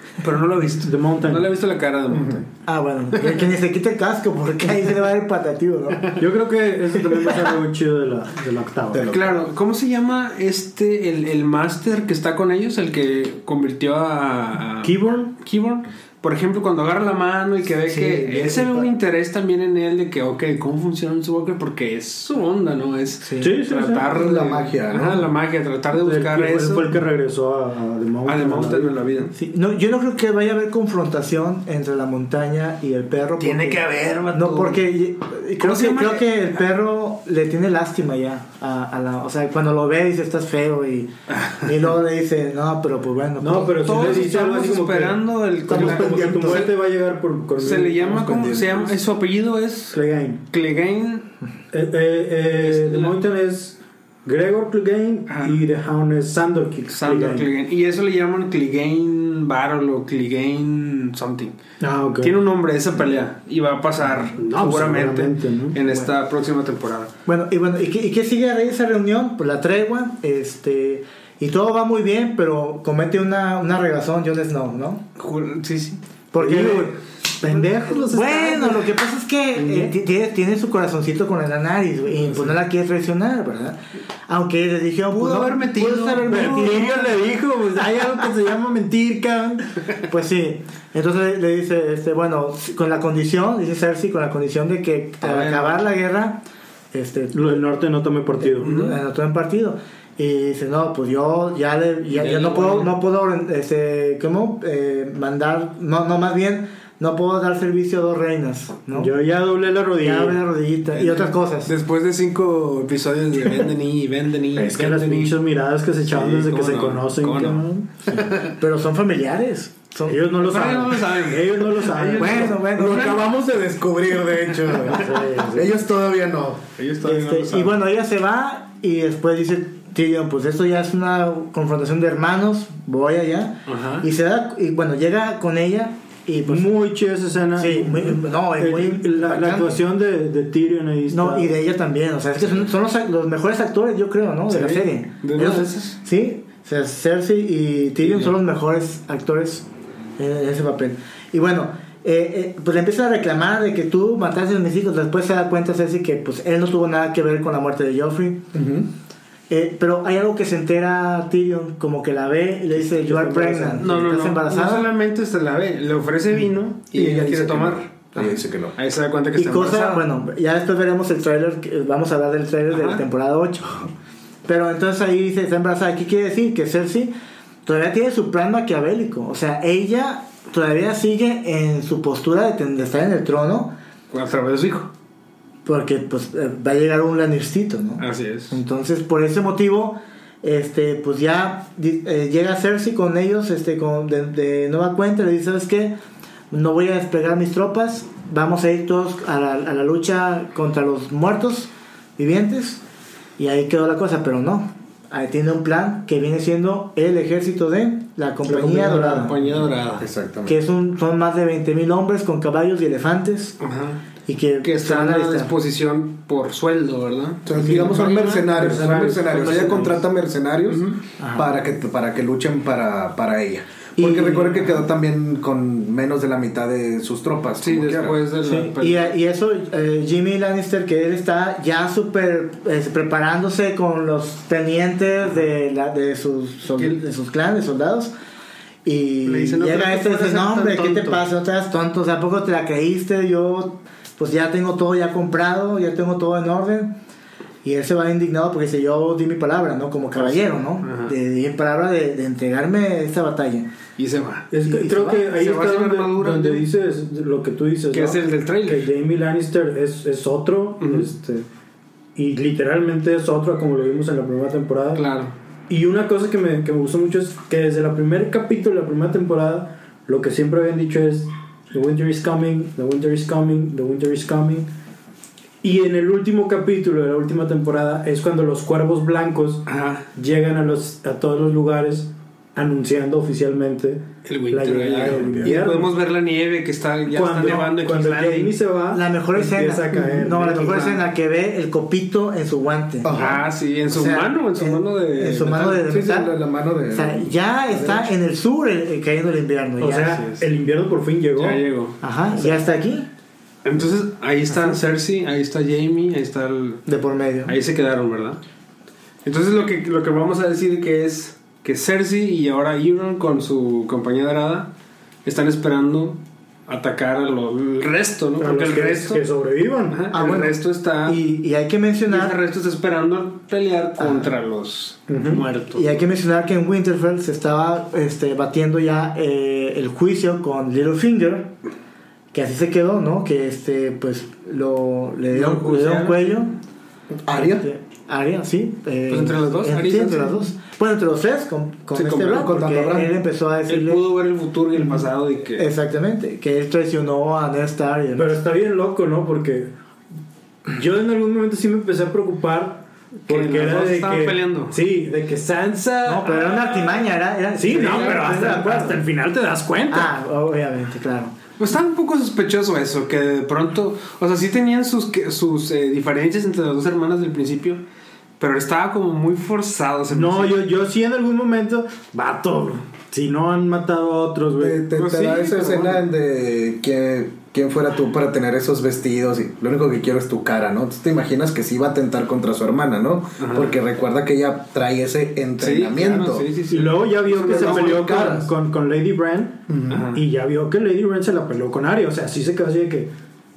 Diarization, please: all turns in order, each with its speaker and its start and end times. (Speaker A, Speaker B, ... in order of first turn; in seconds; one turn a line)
Speaker A: 0.2-2.5
Speaker B: 0.8-1.5
Speaker C: 2.1-2.4
Speaker D: 2.7-6.1
Speaker B: 6.2-9.2
Speaker C: 8.9-9.4
Speaker A: 9.1-26.9
Speaker B: 14.8-15.3
Speaker D: 17.9-18.9
Speaker D: 23.2-23.5
Speaker B: 23.4-24.1
Speaker C: 24.0-25.3
Speaker B: 26.0-29.0
Speaker A: 28.2-29.3
Speaker D: 29.3-43.9
Speaker A: 33.4-34.9
Speaker A: 35.6-36.4
Speaker A: 41.3-41.7
Speaker B: 43.4-48.3
Speaker A: 43.8-46.8
Speaker D: 46.1-46.4
Speaker A: 47.6-51.3
Speaker C: 48.0-49.0
Speaker B: 49.9-50.4
Speaker B: 51.7-57.5
Speaker A: 52.5-53.2
Speaker A: 55.3-55.6
Speaker A: 56.9-61.5
Speaker B: 61.8-62.4
Speaker A: 62.2-67.1
Speaker B: 64.3-65.8
Speaker D: 67.3-75.0
Speaker A: 75.2-76.0
Speaker D: 76.3-87.3
Speaker B: 76.4-78.9
Speaker B: 79.5-79.9
Speaker A: 85.1-86.9
Speaker B: 86.3-89.7
Speaker D: 90.1-97.6
Speaker A: 95.2-95.8
Speaker B: 97.3-98.8
Speaker D: 98.4-109.1
Speaker A: 98.6-99.0
Speaker A: 102.1-103.0
Speaker B: 108.9-110.4
Speaker D: 110.0-111.7
Speaker A: 111.0-115.4
Speaker B: 114.5-118.2
Speaker A: 116.1-118.6
Speaker D: 118.4-120.6
Speaker B: 120.1-122.6
Speaker A: 120.4-123.2
Speaker D: 122.2-123.2
Speaker C: 122.7-126.7
Speaker B: 124.9-125.8
Speaker A: 126.8-127.8
Speaker D: 127.0-136.7
Speaker A: 133.7-134.1
Speaker B: 136.5-141.5
Speaker D: 137.6-139.8
Speaker D: 141.1-149.7
Speaker A: 144.5-146.0
Speaker A: 148.0-148.3
Speaker D: 150.2-158.4
Speaker C: 158.5-158.9
Speaker D: 159.5-164.9
Speaker B: 163.0-163.9
Speaker A: 163.8-167.9
Speaker C: 166.9-168.8
Speaker A: 168.8-170.1
Speaker D: 169.4-173.9
Speaker A: 172.7-173.0
Speaker D: 174.5-177.1
Speaker D: 177.7-183.8
Speaker A: 184.1-184.9
Speaker D: 185.7-196.0
Speaker A: 188.0-188.6
Speaker D: 196.5-202.8
Speaker D: 203.4-209.4
Speaker A: 208.5-210.1
Speaker C: 210.0-210.6
Speaker D: 210.5-213.6
Speaker A: 213.6-214.0
Speaker D: 214.3-215.5
Speaker A: 214.6-220.0
Speaker C: 217.5-228.2
Speaker B: 218.5-220.0
Speaker A: 220.7-221.0
Speaker D: 221.2-221.5
Speaker D: 224.0-224.9
Speaker A: 227.6-229.2
Speaker D: 228.4-238.1
Speaker D: 238.8-246.9
Speaker A: 239.3-241.2
Speaker D: 247.6-253.7
Speaker A: 250.2-251.1
Speaker A: 254.0-254.5
Speaker B: 254.5-261.5
Speaker D: 254.6-255.2
Speaker A: 255.1-256.7
Speaker A: 257.9-258.9
Speaker A: 260.8-261.1
Speaker B: 262.2-265.1
Speaker A: 264.9-265.3
Speaker B: 265.7-274.7
Speaker B: 275.6-285.9
Speaker A: 279.7-280.1
Speaker A: 284.2-288.6
Speaker C: 285.1-285.5
Speaker B: 287.1-291.0
Speaker D: 288.9-293.2
Speaker C: 293.0-293.4
Speaker A: 293.1-295.8
Speaker D: 293.9-296.3
Speaker C: 295.5-298.1
Speaker D: 296.9-300.2
Speaker B: 299.8-301.6
Speaker A: 300.2-300.4
Speaker A: 301.4-302.0
Speaker D: 302.0-303.1
Speaker A: 303.6-306.8
Speaker D: 306.9-307.6
Speaker A: 307.5-308.4
Speaker A: 309.2-314.7
Speaker A: 315.2-319.2
Speaker B: 318.4-320.1
Speaker A: 319.9-321.2
Speaker D: 320.1-322.4
Speaker A: 322.1-326.0
Speaker D: 324.0-324.3
Speaker B: 325.1-325.5
Speaker D: 325.7-331.5
Speaker D: 332.3-336.6
Speaker A: 335.3-336.4
Speaker C: 337.2-337.7
Speaker D: 337.3-344.0
Speaker A: 339.1-340.5
Speaker A: 341.9-342.5
Speaker C: 342.2-343.2
Speaker A: 343.7-345.7
Speaker D: 344.8-348.4
Speaker B: 348.2-349.7
Speaker B: 350.7-356.6
Speaker A: 353.3-354.8
Speaker D: 356.1-359.0
Speaker A: 356.5-357.0
Speaker B: 357.6-360.1
Speaker A: 357.8-358.3
Speaker D: 359.9-361.4
Speaker A: 361.6-367.8
Speaker A: 368.4-370.6
Speaker B: 370.1-374.8
Speaker C: 374.6-386.5
Speaker A: 374.9-376.1
Speaker A: 383.4-383.8
Speaker A: 385.6-388.2
Speaker B: 386.7-393.1
Speaker C: 387.3-388.5
Speaker C: 389.7-390.1
Speaker A: 389.9-390.2